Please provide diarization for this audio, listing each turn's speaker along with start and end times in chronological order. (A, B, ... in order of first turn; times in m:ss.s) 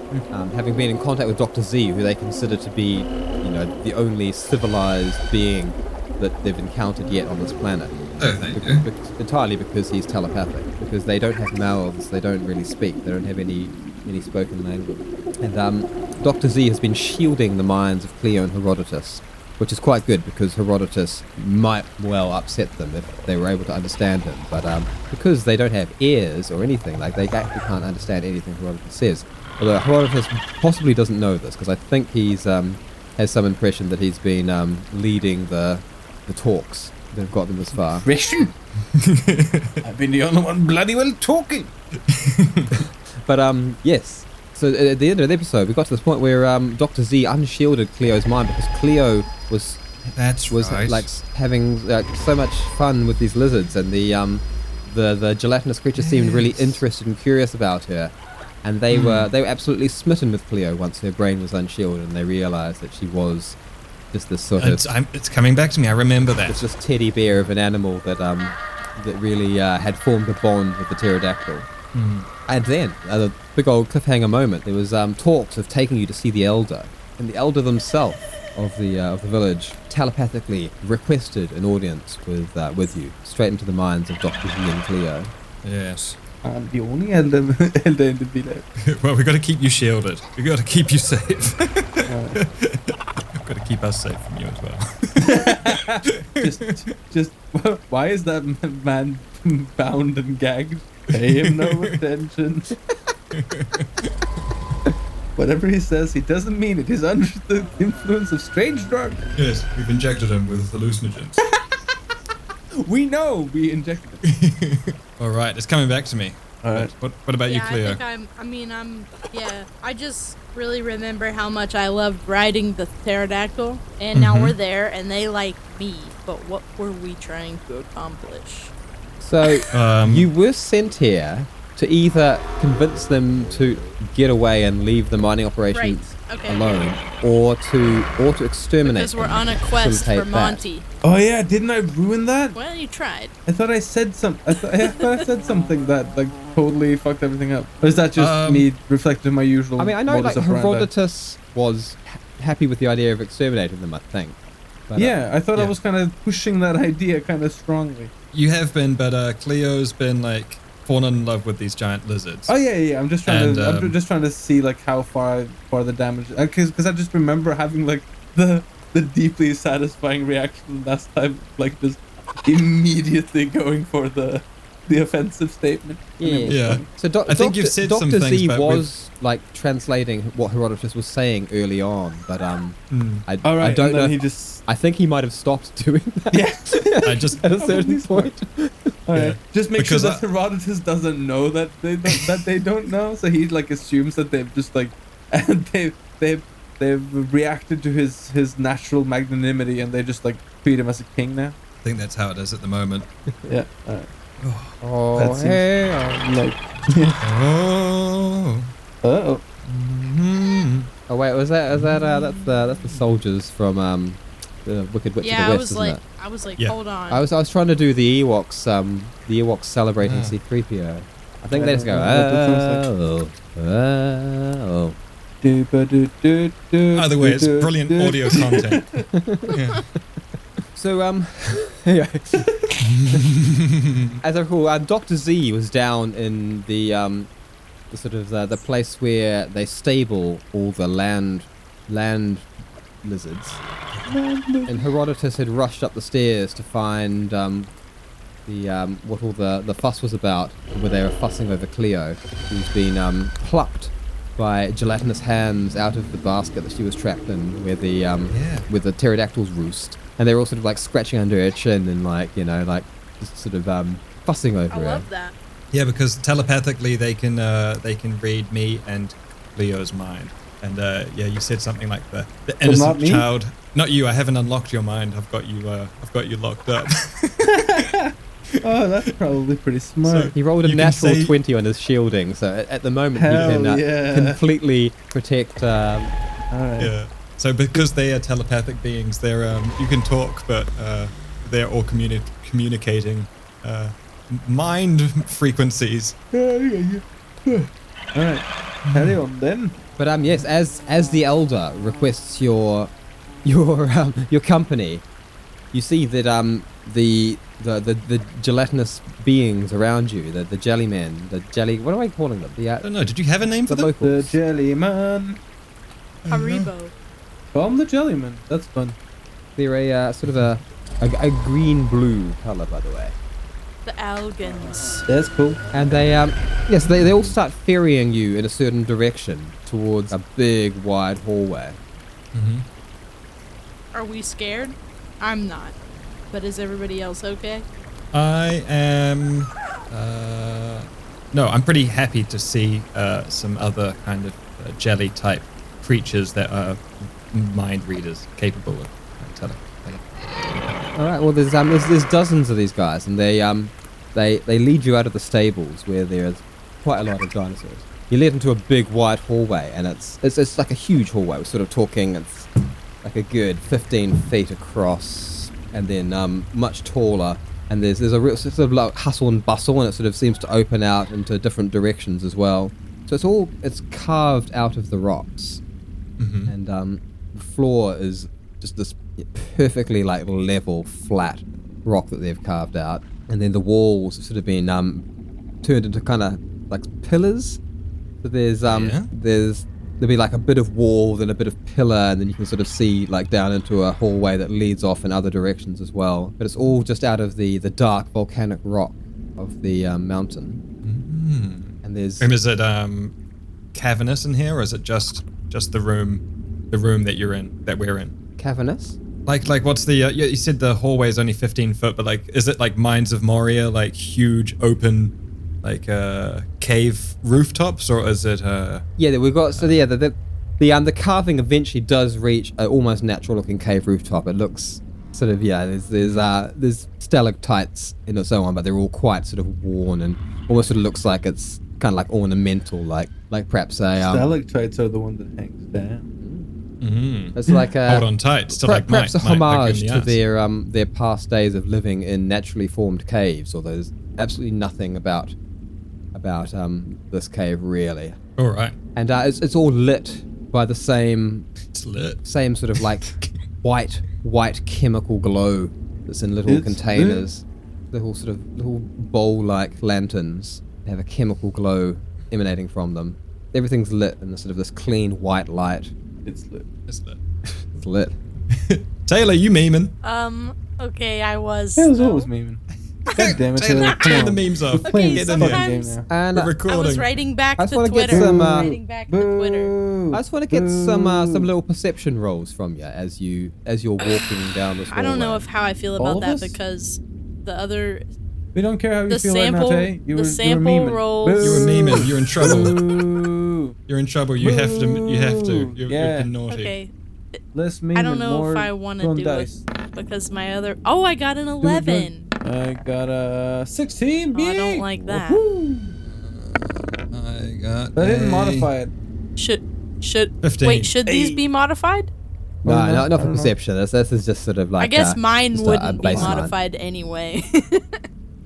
0:00.3-0:08.0 A
0:08.2-0:08.8 B
0:08.5-0:38.1 A
0:37.9-0:38.5 C
0:38.9-0:39.8 B
0:39.8-0:41.7 C
0:42.1-0:42.7 B
0:42.8-0:49.8 A
0:50.1-0:51.1 B
0:50.5-0:58.1 A
0:56.0-0:56.8 B
0:58.6-1:03.6 A
0:58.9-0:59.3 B
1:04.1-1:04.9 A
1:04.6-1:06.6 B
1:06.5-1:11.7 A
1:11.9-1:12.3 B
1:12.5-1:25.3 A
1:25.6-1:26.2 B
1:26.4-1:28.7 C
1:28.8-1:35.8 B
1:32.0-1:32.4 C
1:35.2-1:42.7 C
1:41.1-1:42.0 B
1:43.3-1:44.1 B
1:45.4-1:49.3 C
1:49.4-1:51.4 B
1:52.8-1:54.3 C
1:54.2-1:58.0 B
1:56.6-1:56.9 C
1:57.5-2:08.7 D
2:04.1-2:04.5 B
2:09.2-2:20.6 A
2:09.7-2:10.3 B
2:15.7-2:17.0 D
2:18.8-2:20.8 D
2:21.0-2:22.6 C
2:22.5-2:23.3 D
2:23.4-2:30.9 C
2:28.2-2:28.7 B
2:29.8-2:34.4 A
2:34.9-2:35.1 A
2:35.0-2:38.1 C
2:38.3-2:42.5 B
2:42.5-2:56.8 C
2:43.2-2:44.0 B
2:56.2-3:08.9 A
2:56.5-2:58.8 B
3:02.9-3:03.2 B
3:03.4-3:04.6 C
3:06.3-3:08.3 C
3:07.0-3:07.6 B
3:09.1-3:21.6 C
3:09.1-3:10.2 B
3:21.8-3:23.1 B
3:23.5-3:24.1 C
3:24.4-3:24.8 B
3:24.8-3:26.0 A
3:25.2-3:27.2 C
3:27.2-3:28.7 B
3:29.0-3:29.4 C
3:29.6-3:30.9 B
3:31.1-3:36.0 A
3:31.7-3:32.4 B
3:35.2-3:37.2 D
3:37.1-3:45.0 A
3:40.0-3:40.4 B
3:41.4-3:42.9 C
3:45.4-3:49.0 C
3:46.9-3:49.8 B
3:49.1-3:49.6 A
3:50.7-3:52.4 A
3:52.8-3:54.1 B
3:54.2-3:57.3 A
3:57.9-4:02.5 A
4:03.0-4:03.6 A
4:04.1-4:04.8 C
4:04.7-4:07.7 A
4:08.4-4:25.0 A
4:18.3-4:18.7 B
4:24.7-4:25.3 D
4:25.7-4:37.8 B
4:32.6-4:33.3 C
4:37.4-4:40.3 C
4:40.0-4:41.3 B
4:40.3-4:46.1 A
4:43.1-4:44.4 C
4:46.5-4:46.9 C
4:46.8-4:56.1 B
4:56.3-4:59.8 C
4:58.9-4:59.2 B
5:00.0-5:02.9 A
5:03.4-5:05.0 A
5:05.7-5:12.9 A
5:12.8-5:13.9 B
5:13.6-5:14.4 A
5:14.0-5:15.4 C
5:16.2-5:16.7 B
5:16.3-5:16.9 D
5:17.5-5:19.0 C
5:19.6-5:23.1 A
5:20.2-5:20.5 B
5:23.8-5:25.0 D
5:25.1-5:25.6 C
5:25.7-5:31.8 A
5:32.3-5:32.6 B
5:33.9-5:35.7 D
5:36.3-5:37.6 D
5:38.1-5:50.8 B
5:50.9-6:15.6 A
6:16.2-6:16.5 B
6:16.5-6:25.0 A
6:25.6-6:27.6 A
6:28.2-6:40.6 A
6:28.6-6:29.1 B
6:40.8-6:43.1 B
6:41.8-6:42.3 A
6:43.7-6:48.1 B
6:48.4-6:49.0 A
6:49.2-6:58.8 B
6:59.0-7:14.3 A
7:06.0-7:06.3 B
7:14.0-7:16.0 C
7:16.2-7:16.5 A
7:16.8-7:20.2 B
7:17.3-7:25.3 A
7:26.1-7:28.2 A
7:28.4-7:28.7 B
7:28.9-7:31.5 A
7:31.7-7:32.2 B
7:32.2-7:33.1 A
7:32.7-7:33.3 B
7:33.6-7:45.9 A
7:36.5-7:37.3 C
7:46.2-7:46.7 C
7:46.9-7:47.2 B
7:47.7-7:48.2 A
7:48.5-7:49.9 B
7:50.0-7:52.3 D
7:51.8-7:52.6 C
7:53.0-7:55.7 B
7:53.1-7:56.0 D
7:53.1-7:56.1 C
7:56.1-7:56.5 A
7:56.3-7:57.1 B
7:56.6-7:59.7 D
7:57.6-7:58.7 A
7:58.1-8:01.5 C
8:00.1-8:05.4 A
8:04.9-8:08.0 D
8:06.0-8:06.6 C
8:08.5-8:13.8 C
8:09.1-8:11.8 D
8:11.4-8:12.8 B
8:13.9-8:16.7 B
8:14.4-8:16.3 C
8:16.5-8:17.4 D
8:17.5-8:19.6 C
8:17.9-8:22.3 D
8:21.6-8:25.9 C
8:24.3-8:25.4 D
8:26.1-8:28.7 B
8:28.0-8:28.9 C
8:29.4-8:32.1 D
8:30.4-8:30.9 B
8:31.0-8:31.4 C
8:32.6-8:33.5 C
8:32.6-8:36.5 A
8:34.8-8:38.0 D
8:36.1-8:36.3 C